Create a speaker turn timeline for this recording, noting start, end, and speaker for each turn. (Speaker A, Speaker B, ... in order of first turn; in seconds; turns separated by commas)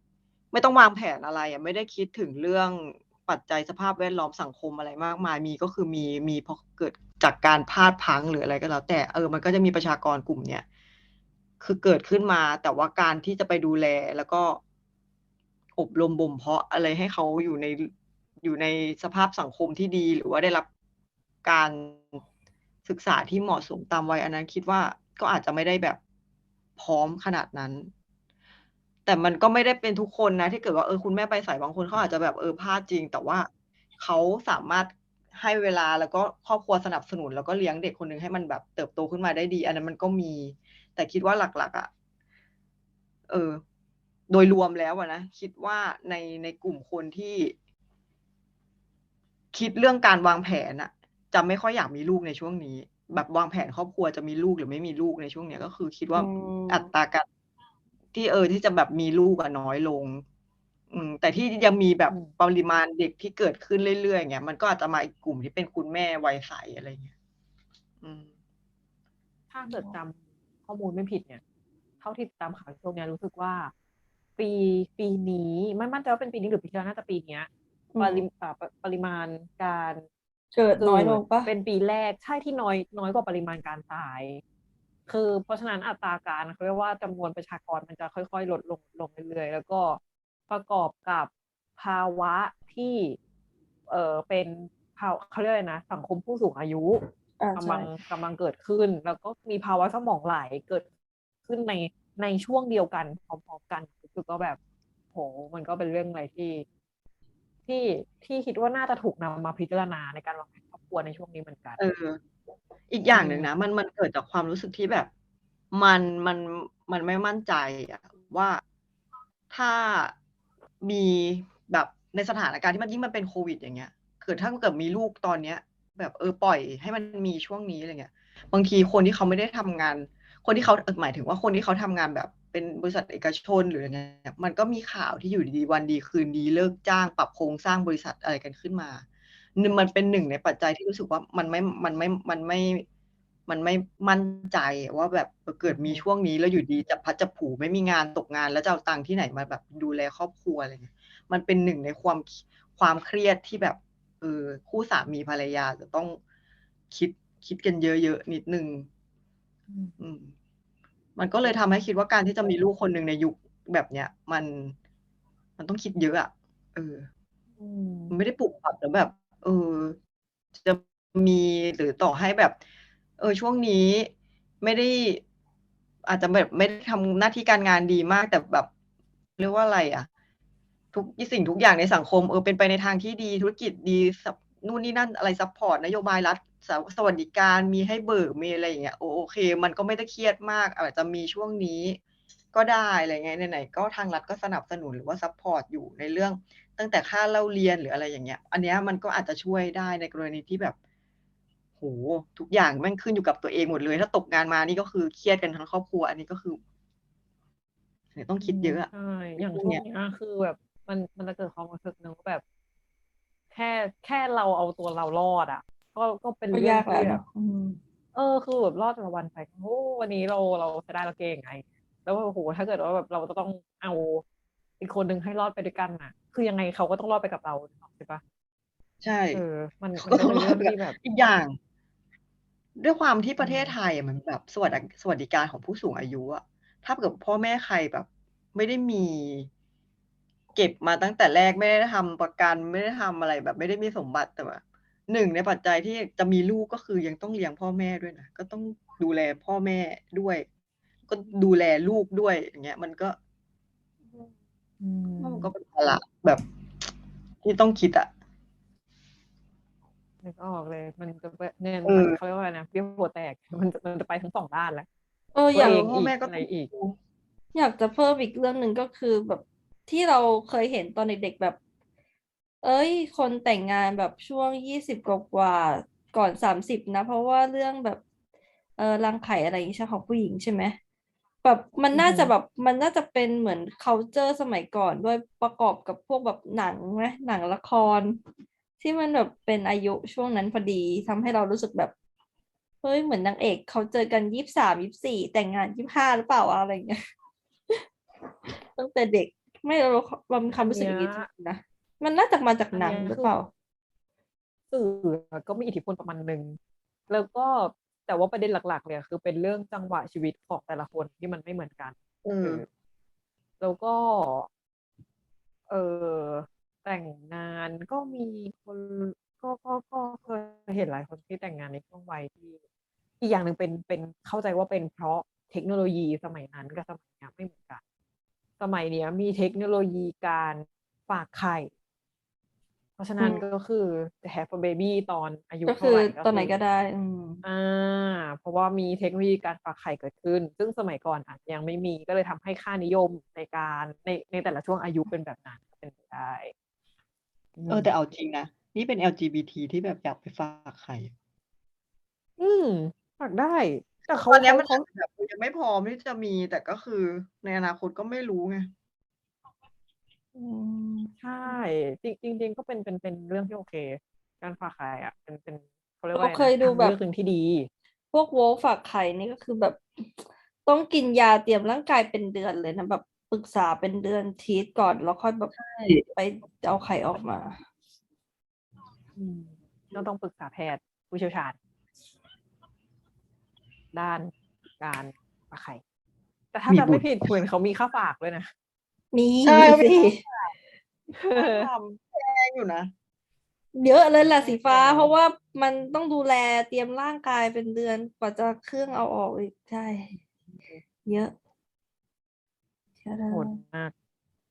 Speaker A: 0.5-10.6, Speaker A: 11.6-14.6, Speaker A: 15.8-17.9, Speaker A: 18.4-20.7, Speaker A: 21.4-22.2, Speaker A: 22.8-26.0, Speaker A: 26.8-27.9, Speaker A: 29.1-41.9, Speaker A: 43.3-43.6, Speaker A: 44.3-47.5, Speaker A: 49.5-57.2, Speaker B: 56.1-56.9, Speaker A: 58.1-60.2, Speaker A: 60.9-67.1, Speaker A: 68.0-68.3, Speaker C: 69.5-71.4, Speaker C: 72.0-73.7, Speaker C: 74.4-80.0, Speaker B: 77.9-78.2, Speaker B: 80.5-81.5, Speaker C: 80.8-84.4, Speaker C: 85.1-93.2, Speaker C: 93.9-97.0, Speaker B: 97.4-97.9, Speaker C: 97.5-100.8, Speaker C: 101.5-104.6, Speaker C: 105.1-106.7, Speaker C: 107.7-111.8, Speaker A: 111.8-112.2, Speaker A: 112.9-115.1, Speaker C: 113.1-113.5, Speaker A: 115.7-118.6, Speaker A: 119.5-120.1, Speaker A: 120.8-139.0, Speaker A: 139.6-142.8, Speaker A: 143.5-156.2, Speaker C: 145.7-146.1, Speaker A: 156.9-158.9, Speaker C: 159.7-159.9, Speaker A: 160.0-160.3, Speaker A: 161.2-164.8, Speaker A: 165.6-167.1, Speaker C: 167.6-168.2, Speaker A: 168.1-169.9, Speaker A: 170.6-172.6, Speaker A: 173.2-174.1, Speaker A: 174.6-175.2, Speaker A: 176.0-178.7, Speaker A: 179.4-180.1, Speaker A: 180.9-192.0, Speaker A: 192.5-200.8, Speaker A: 201.8-206.6, Speaker A: 208.1-208.9, Speaker C: 208.4-212.4, Speaker A: 209.4-209.8, Speaker C: 213.5-217.2, Speaker B: 216.5-217.8, Speaker C: 218.1-224.2, Speaker C: 224.8-228.2, Speaker A: 229.0-229.4, Speaker C: 229.3-231.0, Speaker A: 230.0-231.6, Speaker A: 232.8-239.5, Speaker C: 233.4-233.8, Speaker A: 240.5-250.4, Speaker A: 251.1-253.2, Speaker C: 254.8-255.5, Speaker A: 255.2-256.4, Speaker A: 257.4-258.1, Speaker C: 260.2-264.9, Speaker A: 261.8-262.2, Speaker B: 265.3-265.8, Speaker C: 265.5-266.7, Speaker A: 265.5-267.0, Speaker B: 267.5-271.6, Speaker B: 272.6-278.0, Speaker B: 278.8-280.8, Speaker B: 281.4-288.2, Speaker C: 281.9-282.3, Speaker B: 288.8-291.9, Speaker B: 292.8-297.0, Speaker B: 298.5-303.5, Speaker C: 300.5-301.3, Speaker C: 302.7-303.3, Speaker C: 304.7-306.6, Speaker C: 307.1-312.6, Speaker A: 312.2-312.6, Speaker C: 313.6-314.5, Speaker C: 315.7-322.6, Speaker C: 323.2-327.8, Speaker C: 328.6-331.7, Speaker C: 333.0-336.5, Speaker B: 333.2-333.4, Speaker B: 335.7-337.4, Speaker C: 337.4-346.5, Speaker C: 347.6-347.9, Speaker A: 347.7-351.1, Speaker C: 352.4-354.8, Speaker A: 354.2-358.7, Speaker B: 360.3-361.1, Speaker C: 361.2-367.7, Speaker B: 366.1-366.9, Speaker B: 368.1-375.5, Speaker A: 375.6-376.0, Speaker B: 376.1-377.6, Speaker C: 379.1-381.6, Speaker C: 383.9-385.8, Speaker C: 386.5-388.5, Speaker A: 386.7-387.3, Speaker B: 389.1-390.2, Speaker A: 389.4-390.5, Speaker C: 391.1-391.7, Speaker A: 391.3-392.9, Speaker B: 393.7-400.1, Speaker C: 394.3-395.1, Speaker C: 400.1-400.8, Speaker B: 401.1-401.3, Speaker B: 403.0-403.6, Speaker C: 403.3-403.9